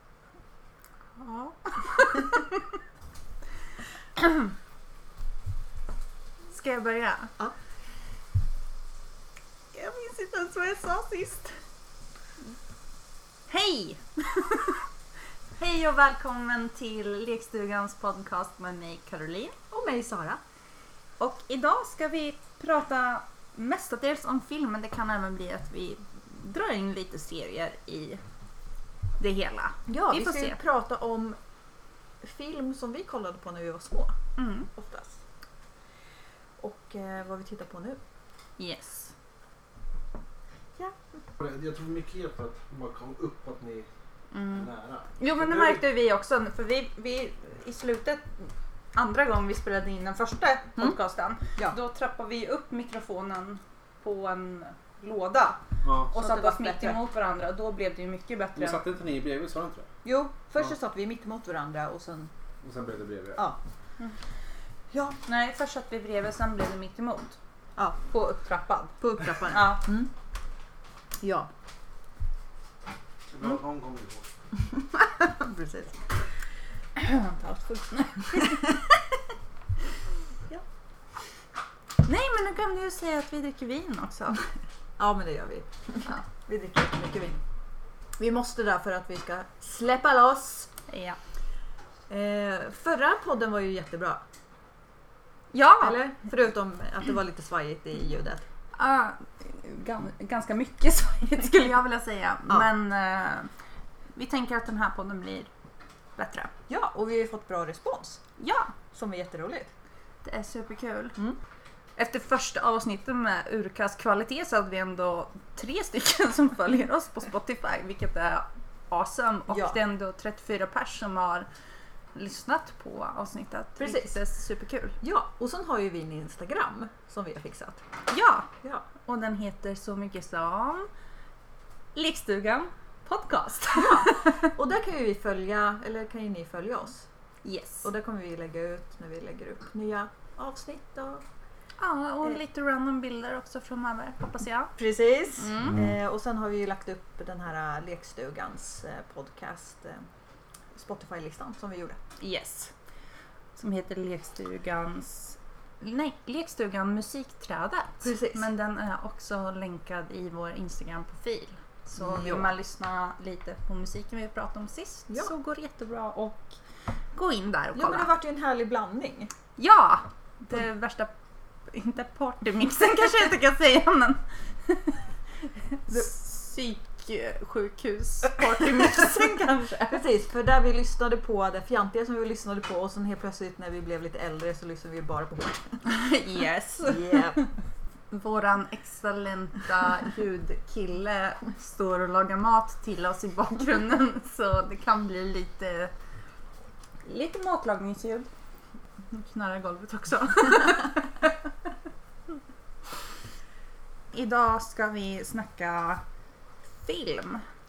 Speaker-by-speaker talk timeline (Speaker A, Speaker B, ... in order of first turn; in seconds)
Speaker A: 1.2-2.6, 4.2-4.5, 6.5-7.3, 9.7-11.6, 13.5-14.8, 15.6-19.6, 21.2-28.2, 29.2-30.6, 34.4-34.7, 38.6-39.1, 44.3-44.7, 45.2-58.8, 65.2-67.4, 68.1-69.8, 77.0-78.7, 82.0-84.4, 90.9-91.2, 95.5-96.0, 98.7-103.5, 104.2-105.5, 106.2-106.5, 108.4-108.7, 110.2-111.2, 112.0-121.5, 122.1-125.0, 128.1-128.5, 129.0-130.9, 131.9-134.4, 137.4-137.8, 141.8-144.7, 145.4-145.9, 152.2-152.7, 153.5-166.5, 167.1-168.1, 169.6-171.1, 171.7-180.0, 185.8-187.4, 188.1-195.9, 197.0-198.3, 199.1-201.3, 204.1-206.0, 206.8-207.4
Speaker B: 19.7-20.4, 29.9-31.4, 32.2-34.1, 34.7-35.2, 36.6-38.0, 56.1-57.0, 60.0-62.3, 64.9-65.2, 69.0-70.1, 71.2-71.5, 74.8-76.0, 78.4-78.7, 85.0-87.4, 88.2-90.7, 92.1-94.2, 95.8-98.4, 106.7-108.2, 108.9-109.7, 119.5-119.8, 123.8-124.2, 125.0-127.8, 133.7-137.1, 137.8-141.2, 144.8-150.1, 150.7-152.0, 158.0-158.5, 162.0-162.5, 167.7-169.3, 179.9-185.8, 186.8-187.4
Speaker C: 41.4-43.9, 44.4-45.8, 55.8-56.1, 58.6-59.9, 62.6-63.4, 73.3-74.3